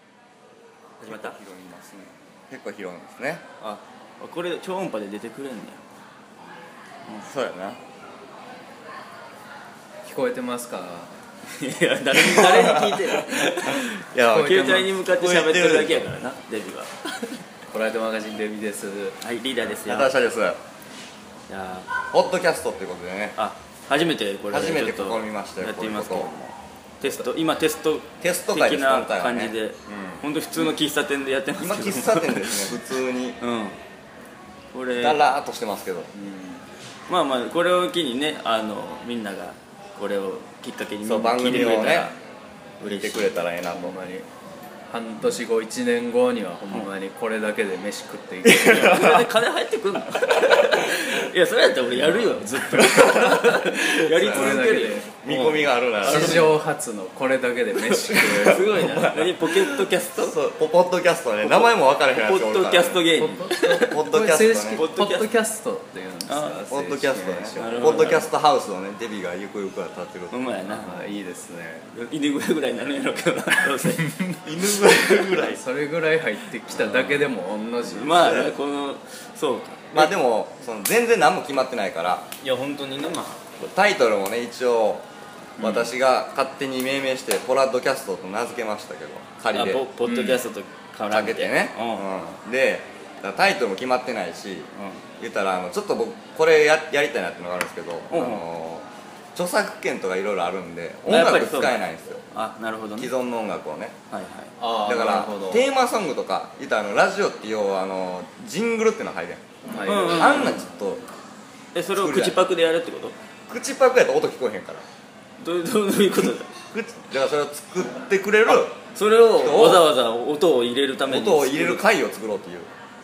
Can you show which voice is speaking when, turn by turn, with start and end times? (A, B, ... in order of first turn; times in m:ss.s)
0:01.0-0:01.4 A
0:01.1-0:03.5 B
0:03.6-0:05.8 A
0:07.1-0:07.8 B
0:10.0-0:11.1 C
0:11.5-0:17.4 A
0:12.1-0:16.1 B
0:14.3-0:14.9 C
0:17.7-0:19.2 C
0:19.2-0:20.1 A
0:19.8-0:20.6 B
0:21.5-0:21.9 A
0:22.1-0:23.4 B
0:23.4-0:32.7 A
0:24.5-0:26.3 B
0:28.2-0:30.7 B
0:31.6-0:33.4 B
0:33.4-0:33.8 A
0:34.7-0:35.2 A
0:35.0-0:36.1 B
0:36.1-0:36.6 C
0:37.1-0:42.2 A
0:41.0-0:42.1 B
0:42.8-0:44.0 B
0:42.8-0:43.5 A
0:43.7-0:44.3 C
0:44.9-0:49.3 C
0:48.5-0:56.6 A
0:54.0-0:55.1 C
0:54.2-0:54.6 B
0:55.2-0:56.5 B
0:56.0-0:59.1 C
0:57.8-1:00.3 A
0:58.6-1:03.1 B
1:01.4-1:04.1 A
1:03.1-1:08.3 C
1:03.6-1:04.9 B
1:04.7-1:05.3 A
1:06.3-1:06.6 A
1:06.7-1:10.4 B
1:07.6-1:08.3 A
1:10.3-1:11.1 A
1:10.7-1:11.9 C
1:11.9-1:14.1 A
1:13.8-1:14.4 C
1:14.4-1:15.6 B
1:15.4-1:18.3 C
1:16.7-1:17.3 A
1:17.8-1:20.1 A
1:18.1-1:18.6 B
1:19.9-1:22.3 B
1:22.4-1:23.6 A
1:23.6-1:25.0 B
1:25.6-1:25.9 C
1:25.6-1:29.9 B
1:29.5-1:32.1 A
1:30.0-1:30.4 C
1:31.1-1:42.2 B
1:34.7-1:35.1 A
1:38.1-1:38.4 A
1:41.1-1:41.8 A
1:42.3-1:43.1 A
1:43.0-1:44.0 B
1:44.1-1:44.5 A
1:44.6-1:45.7 C
1:44.8-1:49.4 B
1:49.7-1:50.8 C
1:49.8-1:50.6 A
1:50.0-1:51.0 B
1:51.7-1:53.2 A
1:52.0-1:52.4 B
1:53.5-1:54.8 B
1:55.4-1:56.5 A
1:56.7-1:58.8 B
1:58.5-2:01.8 A
1:59.4-1:59.9 B
2:01.1-2:02.7 B